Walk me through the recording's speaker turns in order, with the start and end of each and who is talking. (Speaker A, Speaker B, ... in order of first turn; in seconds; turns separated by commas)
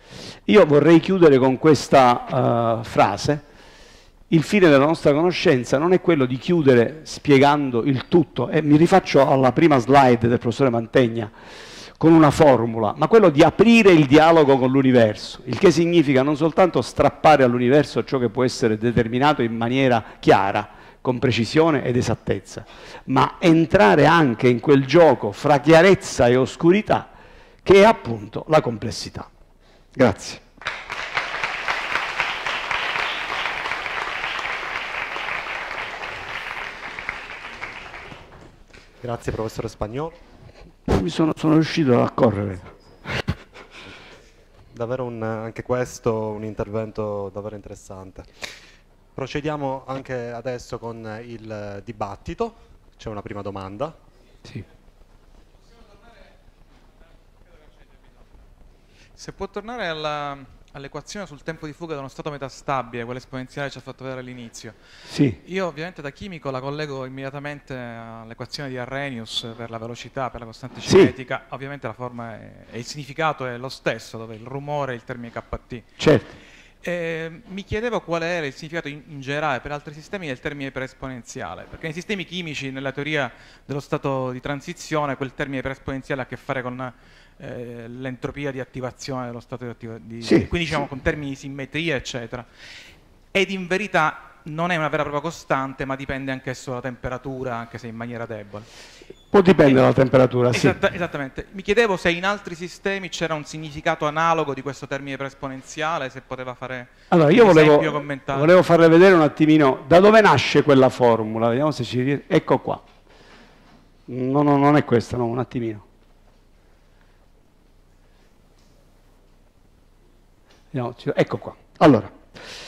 Speaker A: 0.5-3.4, Speaker A: 4.3-11.3, Speaker A: 12.0-27.1, Speaker A: 27.6-29.3, Speaker A: 29.9-30.4, Speaker B: 39.0-40.2, Speaker A: 40.9-42.7, Speaker B: 44.7-48.3, Speaker B: 49.1-54.0, Speaker C: 59.1-64.8, Speaker A: 65.1-65.4, Speaker C: 65.4-75.8, Speaker A: 70.8-71.1, Speaker A: 76.0-76.3, Speaker C: 76.8-92.5, Speaker A: 90.2-90.5, Speaker C: 93.3-98.7, Speaker A: 99.3-100.8, Speaker C: 100.5-108.5, Speaker A: 107.1-112.8, Speaker A: 114.1-115.8, Speaker A: 120.7-122.1